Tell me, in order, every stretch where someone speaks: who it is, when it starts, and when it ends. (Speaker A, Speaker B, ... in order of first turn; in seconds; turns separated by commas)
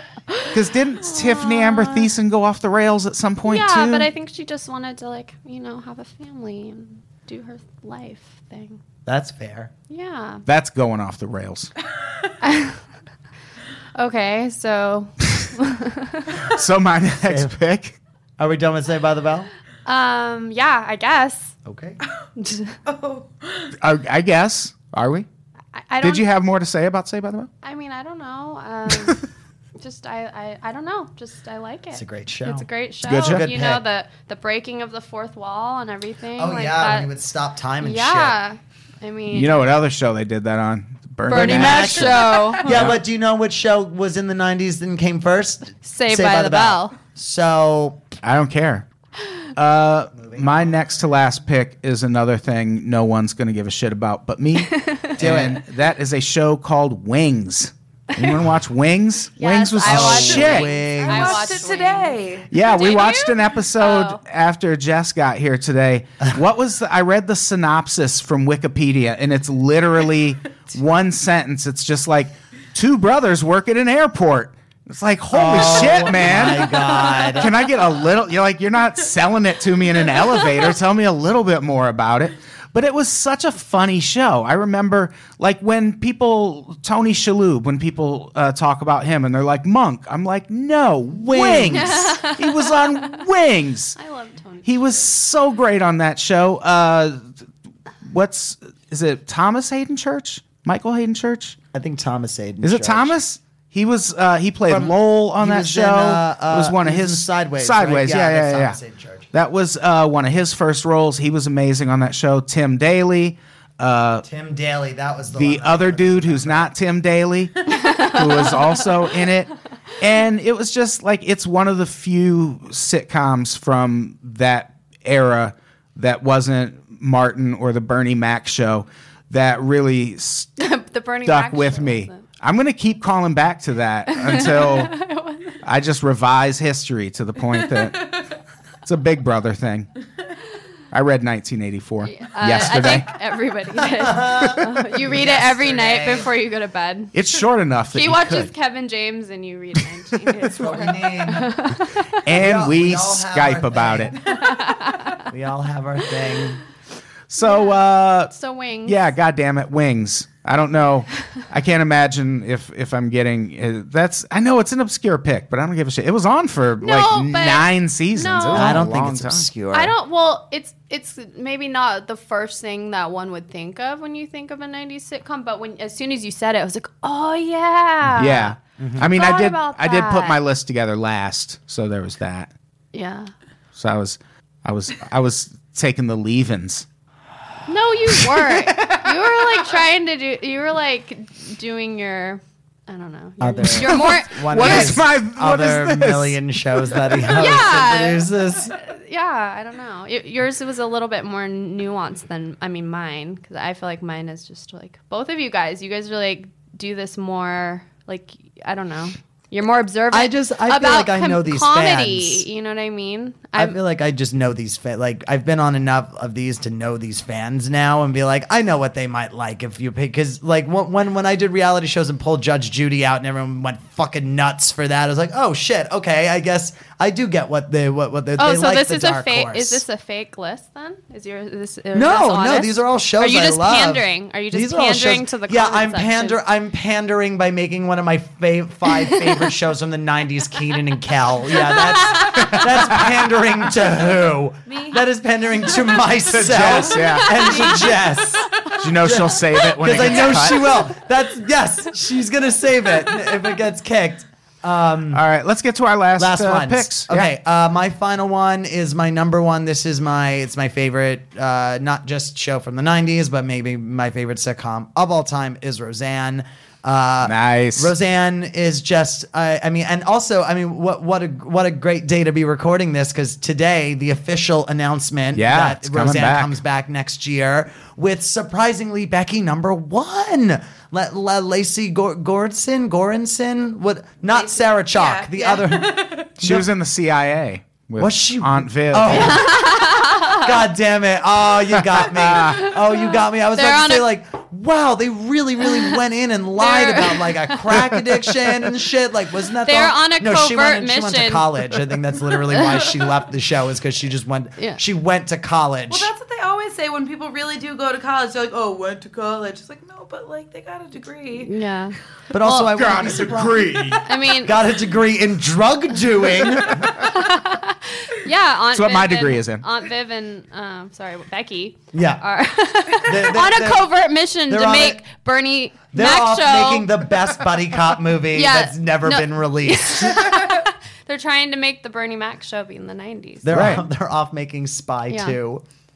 Speaker A: 0.3-2.1, Speaker B: 0.5-4.1, Speaker A: 3.5-8.8, Speaker C: 9.1-9.7, Speaker A: 9.9-10.4, Speaker B: 10.4-11.7, Speaker A: 12.4-12.8, Speaker A: 13.9-16.4, Speaker B: 16.4-18.0, Speaker C: 17.2-17.5, Speaker C: 18.4-19.5, Speaker A: 19.9-21.5, Speaker C: 21.6-22.0, Speaker A: 22.4-22.8, Speaker D: 22.9-23.7, Speaker B: 23.8-25.2, Speaker A: 25.7-26.2, Speaker B: 26.0-27.5, Speaker A: 27.6-29.2, Speaker B: 28.9-29.2, Speaker A: 29.8-37.1, Speaker C: 31.9-33.8, Speaker B: 33.0-33.5, Speaker C: 36.4-38.4, Speaker A: 37.8-39.5, Speaker B: 39.3-43.0, Speaker A: 41.3-42.7, Speaker C: 41.3-48.0, Speaker A: 45.8-46.9, Speaker B: 48.2-48.8, Speaker B: 49.5-60.8, Speaker C: 50.1-50.7, Speaker A: 54.7-55.1, Speaker C: 55.2-55.6, Speaker A: 59.4-64.2, Speaker C: 59.8-61.6, Speaker D: 60.9-62.5, Speaker B: 62.5-94.0, Speaker C: 75.3-77.6, Speaker C: 91.2-92.0, Speaker A: 91.4-93.2, Speaker A: 94.0-95.1, Speaker B: 94.6-97.3, Speaker B: 98.0-101.6, Speaker C: 101.7-103.2, Speaker B: 102.6-108.8, Speaker C: 104.7-109.3, Speaker B: 109.3-114.2, Speaker C: 114.2-116.7, Speaker B: 115.3-130.6, Speaker A: 117.8-118.2, Speaker A: 130.6-132.2, Speaker B: 131.2-134.9, Speaker A: 134.1-135.6, Speaker B: 135.6-138.2, Speaker B: 138.8-139.9, Speaker B: 140.9-143.1, Speaker A: 142.0-147.1, Speaker C: 143.8-146.3, Speaker B: 147.1-148.5, Speaker A: 147.9-152.1, Speaker C: 150.4-151.6, Speaker B: 152.2-154.2, Speaker C: 152.3-154.2, Speaker A: 154.3-155.2, Speaker C: 155.3-156.6, Speaker B: 157.3-158.3, Speaker A: 157.4-159.1, Speaker B: 158.8-169.5, Speaker A: 166.8-168.8, Speaker C: 168.5-169.9, Speaker A: 169.7-180.4, Speaker B: 178.2-182.5, Speaker C: 178.8-179.1, Speaker A: 182.9-183.3, Speaker B: 183.8-186.8, Speaker A: 187.7-195.0, Speaker B: 188.1-189.6, Speaker C: 193.4-198.8, Speaker B: 193.6-197.3, Speaker A: 197.2-213.8, Speaker C: 210.1-212.4, Speaker C: 213.6-229.8, Speaker A: 228.4-236.4, Speaker C: 231.9-255.2, Speaker A: 241.5-242.6, Speaker B: 242.3-243.1, Speaker D: 244.7-245.0, Speaker B: 246.3-247.7, Speaker A: 246.9-248.3, Speaker D: 247.6-248.2, Speaker B: 248.8-250.8, Speaker B: 255.1-257.3, Speaker C: 256.2-286.7, Speaker B: 267.2-267.9, Speaker B: 275.3-276.6, Speaker D: 284.3-286.2, Speaker B: 286.4-289.4, Speaker C: 288.0-306.1, Speaker A: 289.1-290.5, Speaker B: 292.0-292.6, Speaker A: 292.4-294.1, Speaker A: 296.6-297.7, Speaker A: 299.6-301.6, Speaker A: 302.5-302.8, Speaker D: 305.9-311.5, Speaker A: 311.4-312.9, Speaker C: 312.3-317.0, Speaker B: 312.6-314.1, Speaker A: 314.0-314.6, Speaker B: 316.7-316.9, Speaker A: 316.9-327.1, Speaker B: 318.7-319.6, Speaker C: 321.9-322.2, Speaker C: 323.0-323.9, Speaker C: 324.5-325.0, Speaker C: 325.9-330.5, Speaker A: 328.3-333.6, Speaker C: 333.4-335.6, Speaker B: 333.5-333.8, Speaker A: 335.1-335.4